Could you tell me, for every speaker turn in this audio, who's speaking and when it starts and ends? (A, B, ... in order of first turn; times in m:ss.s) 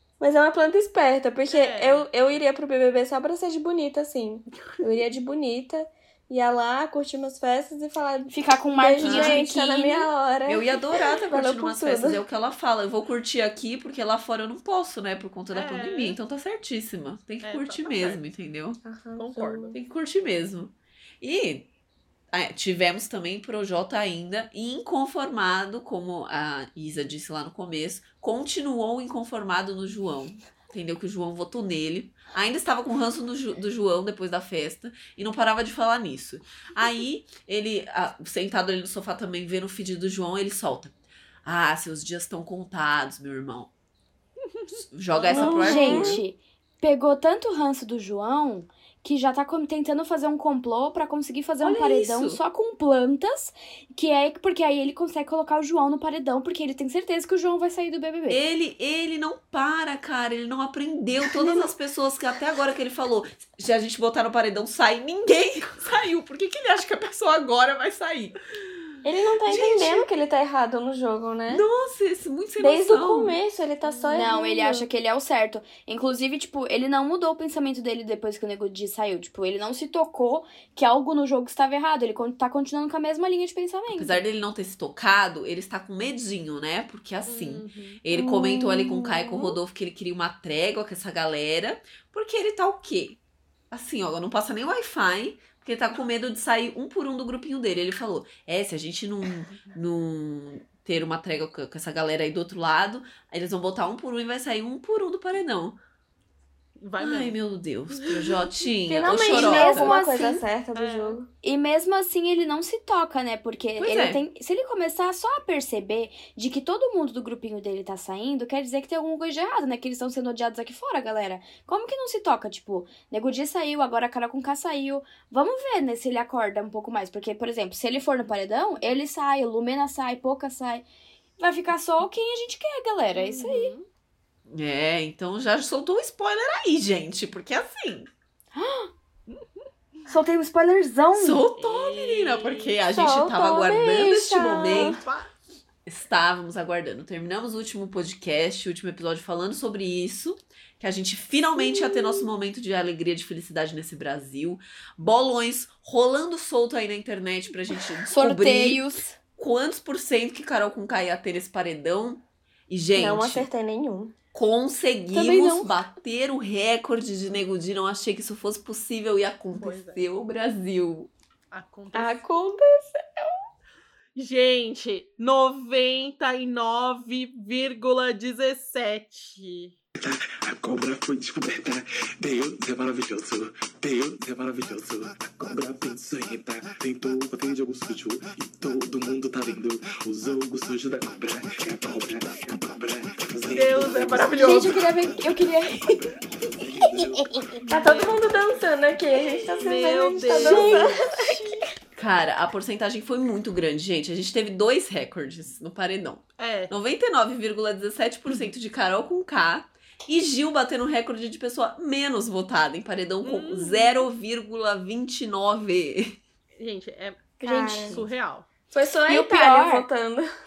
0:00.2-0:12.2 A
0:01.5-0:02.0 B
0:08.3-0:10.1 C
0:09.0-0:09.4 D
0:10.4-0:18.8 D
0:15.5-0:16.2 B
0:17.4-0:18.2 B
0:18.8-0:19.7 A
0:19.2-0:19.7 B
0:19.7-0:21.7 D
0:22.3-0:43.7 D
0:44.5-0:45.8 B
0:44.9-0:46.2 D
0:45.3-0:46.2 A
0:45.6-0:58.4 C
0:51.6-0:52.4 D
0:58.3-1:08.4 D
1:01.4-1:01.7 A
1:09.0-1:11.6 A
1:09.5-1:10.1 D
1:11.5-1:13.4 D
1:12.6-1:14.9 A
1:13.8-1:14.1 B
1:14.1-1:24.2 C
1:23.9-1:33.2 D
1:27.2-1:28.0 B
1:28.1-1:29.5 A
1:33.7-1:45.8 D
1:46.8-1:47.4 B
1:47.0-1:49.9 D
1:48.9-1:51.3 A
1:49.2-1:50.4 C
1:50.7-1:51.2 B
1:51.4-2:10.8 C
1:53.8-1:54.2 D
2:11.4-2:13.7 C
2:13.1-2:13.9 B
2:14.5-2:18.1 D
2:18.5-2:18.9 C
2:20.1-2:21.4 C
2:21.1-2:25.0 D
2:21.6-2:22.7 B
2:22.9-2:25.0 A
2:24.6-2:25.3 B
2:25.8-2:43.5 D
2:31.6-2:32.3 A
2:38.1-2:39.2 C
2:42.9-2:44.1 A
2:44.3-2:51.1 D
2:45.1-2:45.7 A
2:49.5-2:50.0 B
2:51.5-2:52.2 B
2:51.9-2:53.4 A
2:54.2-2:59.8 B
3:00.0-3:15.1 E
3:13.5-3:14.8 B
3:14.4-3:16.0 C
3:16.5-3:17.3 E
3:17.7-3:21.6 A
3:17.7-3:18.4 B
3:19.2-3:20.9 B
3:20.3-3:21.6 C
3:22.0-3:36.2 D
3:26.4-3:26.7 B
3:33.2-3:34.1 B
3:36.6-3:38.5 B
3:37.4-3:38.0 A
3:38.7-3:40.2 A
3:39.1-3:39.8 C